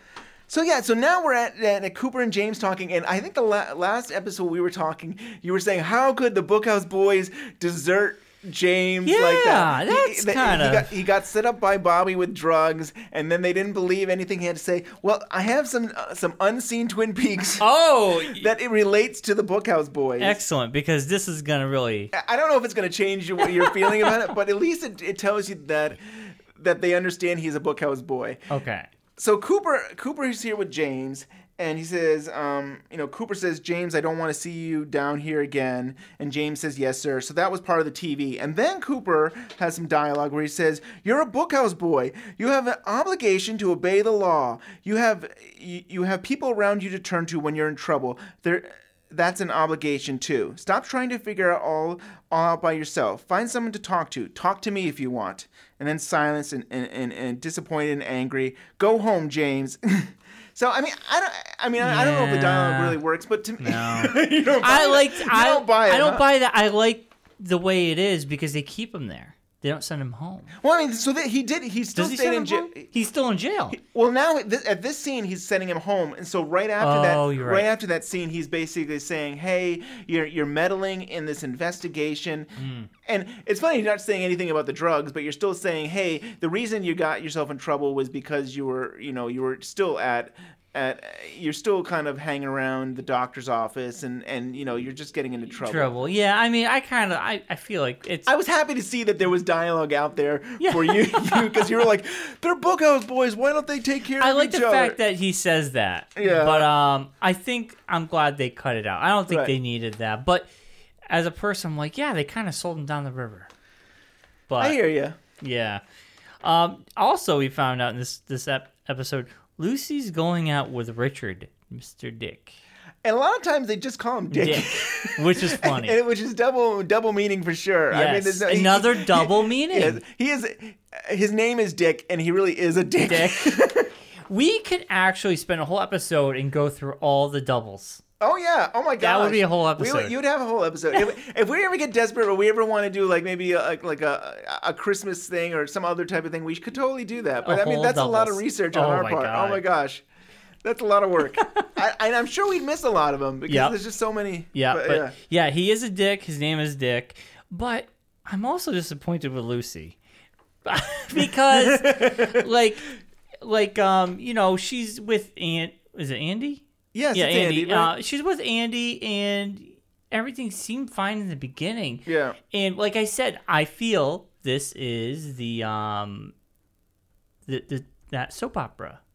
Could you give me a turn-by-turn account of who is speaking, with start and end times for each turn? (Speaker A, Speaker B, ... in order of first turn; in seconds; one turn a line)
Speaker A: 0.5-17.7
Speaker B: 9.0-10.9
Speaker B: 17.6-18.5
Speaker A: 18.2-20.4
Speaker B: 20.2-22.1
Speaker A: 22.1-28.4
Speaker B: 28.5-28.9
Speaker A: 29.2-66.2
Speaker B: 61.8-63.0
Speaker B: 63.6-70.5
Speaker A: 70.6-72.9
Speaker B: 71.9-73.8
Speaker A: 73.7-82.5
Speaker B: 76.8-77.7
Speaker B: 82.6-82.9
Speaker A: 83.0-95.9
Speaker B: 95.6-98.3
Speaker A: 98.2-105.0
Speaker B: 100.6-101.7
Speaker B: 104.2-110.5
Speaker A: 106.2-106.7
Speaker A: 109.3-109.5
Speaker B: 111.1-113.5
Speaker B: 114.5-114.8
Speaker A: 114.6-115.2
Speaker B: 115.4-115.8
Speaker B: 116.4-122.6
Speaker A: 123.0-133.9
Speaker B: 124.3-126.0
Speaker B: 127.9-130.0
Speaker B: 133.0-133.6
Speaker B: 134.3-138.0
Speaker A: 138.2-150.0
Speaker B: 139.0-140.2
Speaker B: 147.4-149.6
Speaker A: 150.6-155.1
Speaker B: 153.5-153.8
Speaker B: 154.5-159.9
Speaker B: 160.6-176.3
Speaker A: 161.2-162.4
Speaker A: 166.9-167.9
Speaker A: 172.1-172.4
Speaker B: 177.4-179.0